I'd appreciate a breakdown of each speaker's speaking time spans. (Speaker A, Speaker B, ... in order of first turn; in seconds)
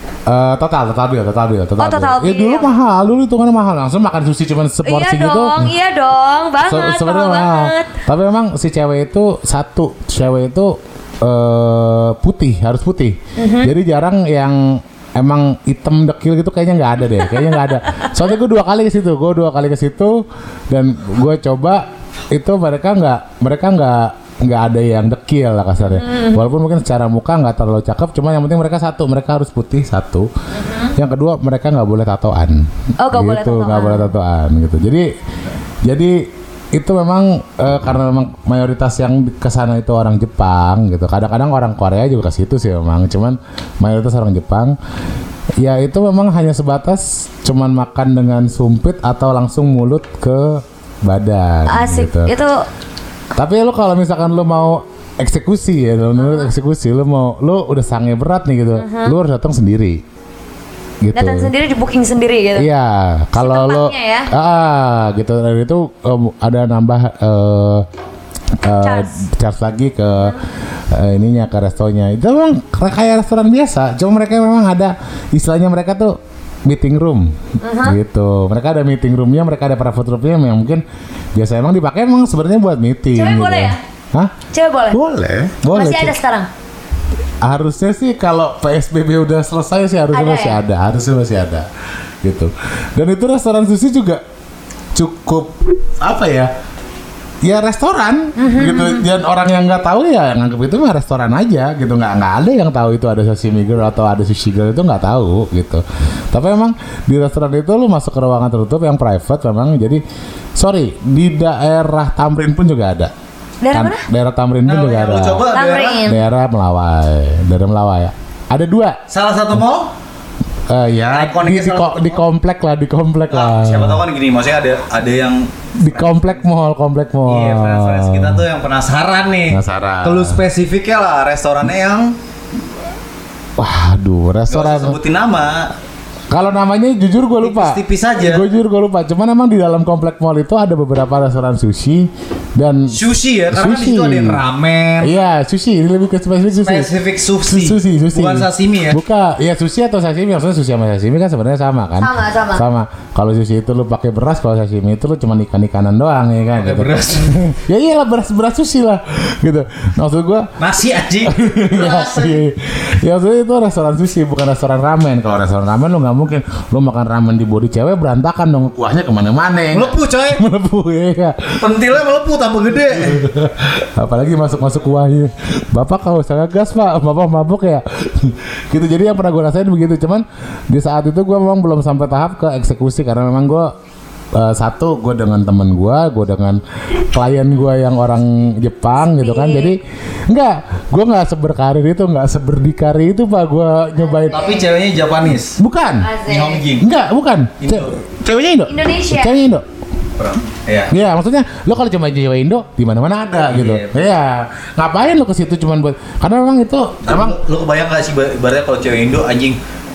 Speaker A: 0.3-5.7, 6.6-30.3, 30.9-35.1, 35.8-44.8, 45.6-52.3, 53.3-60.0, 61.0-61.5, 62.5-67.9, 68.6-70.4, 70.9-80.8, 81.3-84.3, 84.9-86.2, 87.4-91.7, 92.2-94.2, 94.9-96.5, 97.4-110.0, 110.5-113.1, 113.7-115.5, 116.0-119.0, 120.7-124.0, 125.8-128.4, 129.5-130.4, 133.6-135.0, 136.3-143.0, 143.5-144.4, 145.0-146.9, 147.4-160.5, 161.2-171.6, 173.0-183.7, 184.3-194.5, 195.6-196.1, 196.8-199.6, 200.9-207.4
Speaker B: 1.8-2.7, 4.8-7.9, 13.4-13.7, 17.3-18.1, 25.8-26.4, 30.5-30.9, 33.0-34.1, 51.7-52.6, 56.2-56.5, 58.8-59.1, 61.1-62.7, 63.4-64.3, 68.8-69.1, 77.6-78.0, 83.1-83.8, 84.5-85.0, 85.7-86.5, 90.1-90.6, 98.3-99.0, 113.6-114.0, 115.5-116.2, 152.0-152.6, 189.0-189.7, 194.2-194.6, 196.0-196.6, 198.7-199.3
Speaker C: 114.7-116.0, 119.1-119.9, 121.1-122.2, 123.3-126.4, 127.3-132.1, 134.5-135.7, 137.4-138.4, 142.9-145.1, 146.5-149.0, 156.6-157.4, 160.6-162.4, 169.7-170.4, 171.6-173.2, 194.3-195.6, 196.2-196.9, 197.6-198.0, 200.2-200.9, 203.4-204.2, 207.0-209.6